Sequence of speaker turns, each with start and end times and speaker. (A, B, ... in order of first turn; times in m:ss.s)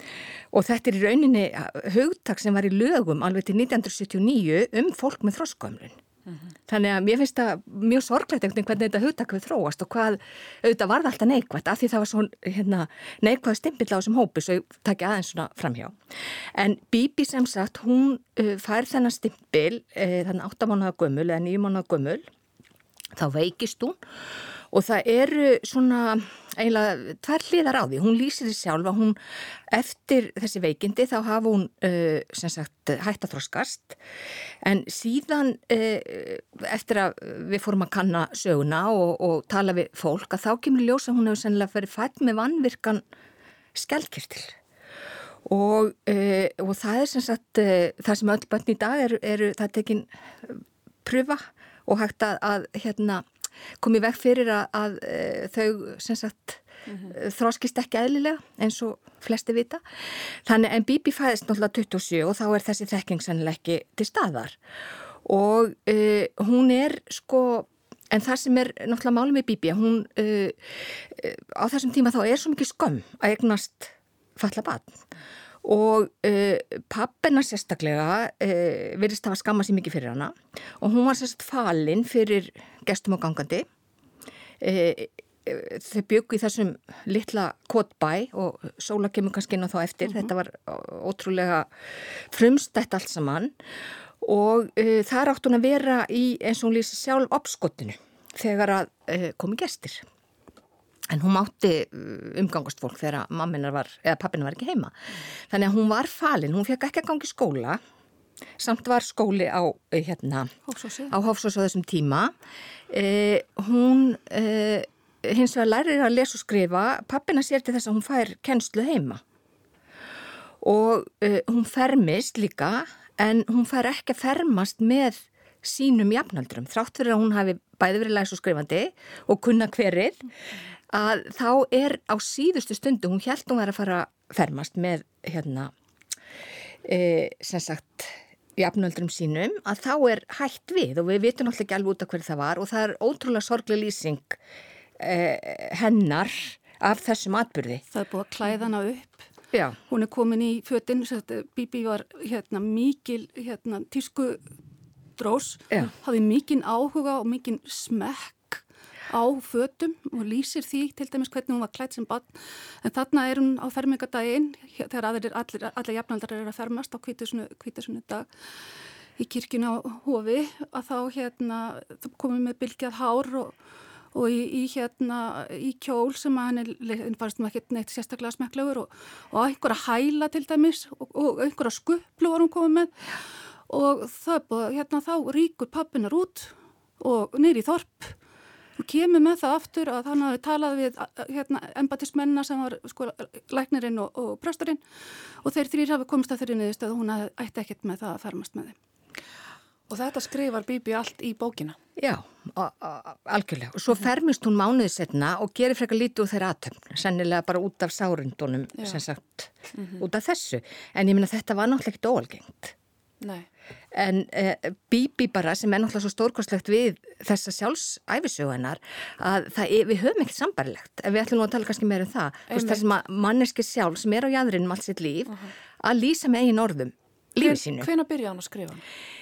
0:00.5-0:06.0 A
0:06.7-0:16.0 A
0:16.5-0:22.3 A
0:23.2-0:24.0 A
0:24.7-0:29.2 A
0:29.7-0:34.0 A
0:34.6-0:43.0 A
0:43.7-0:44.6 A
0:45.4-0:53.2 A
0:53.8-1:04.6 A
1:05.2-1:15.0 A
1:15.6-1:23.6 A
1:24.6-1:33.5 A
1:30.0-1:30.3 B
1:34.2-1:40.0 A
1:41.1-1:47.8 A
1:48.6-1:50.5 A
1:50.7-1:51.1 B
1:51.1-1:52.3 A
1:52.9-1:59.2 A
2:00.6-2:10.3 A
2:10.9-2:15.7 A
2:16.8-2:24.4 A
2:25.0-2:27.8 A
2:27.9-2:29.2 B
2:29.5-2:29.8 A
2:29.9-2:34.4 B
2:35.2-2:48.3 B
2:49.2-2:53.5 B
2:54.1-3:02.9 B
3:03.7-3:08.1 B
3:08.8-3:14.8 B
3:15.4-3:18.8 B
3:19.9-3:21.8 C
3:22.0-3:32.7 A
3:33.2-3:33.5 C
3:33.9-3:47.9 A
3:42.5-3:42.8 C
3:47.4-3:48.8 C